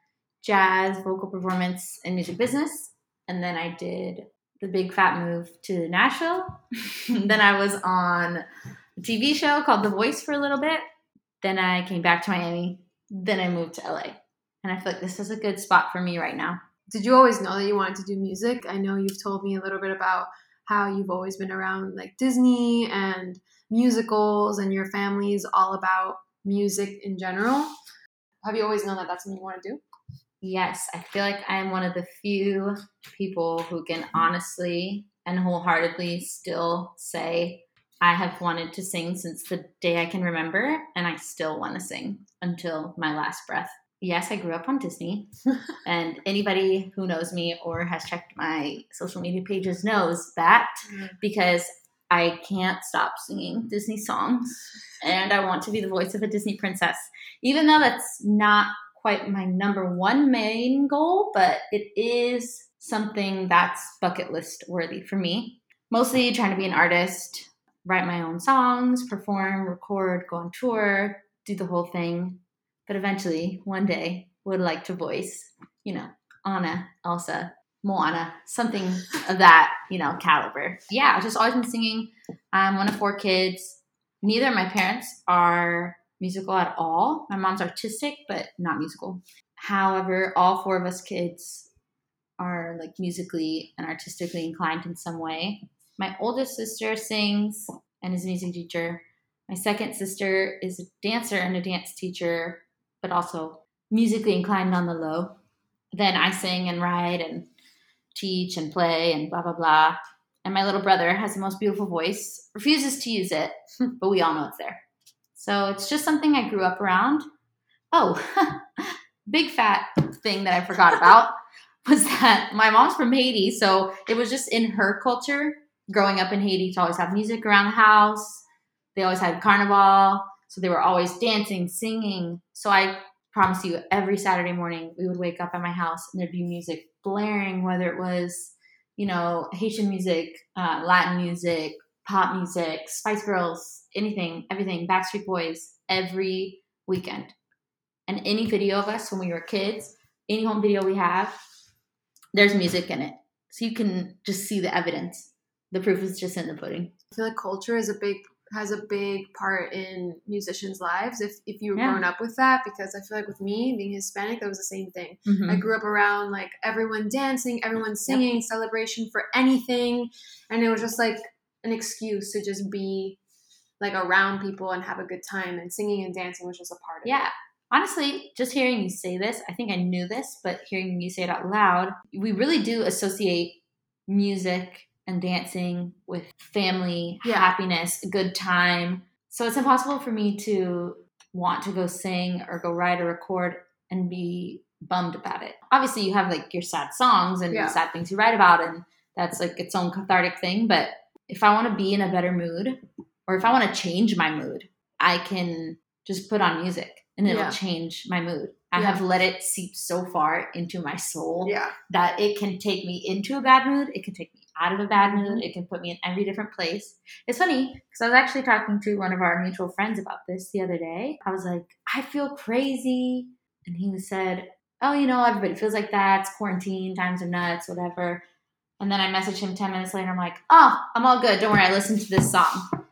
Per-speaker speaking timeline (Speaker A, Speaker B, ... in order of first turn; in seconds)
Speaker A: 0.4-8.4, 9.0-10.8, 11.4-16.6, 30.4-45.3, 45.8-91.7, 92.4-105.3, 105.9-107.5, 108.1-114.8, 115.3-117.3, 117.9-128.4, 128.9-147.3, 148.1-151.4, 152.3-156.9, 161.8-162.0, 165.2-165.6, 177.0-228.2, 228.8-232.6
Speaker B: 16.9-27.7, 28.4-29.8, 157.1-173.2, 173.8-177.2, 187.2-187.5, 197.5-197.8, 207.2-207.6, 208.7-209.0, 211.4-211.7, 215.0-215.4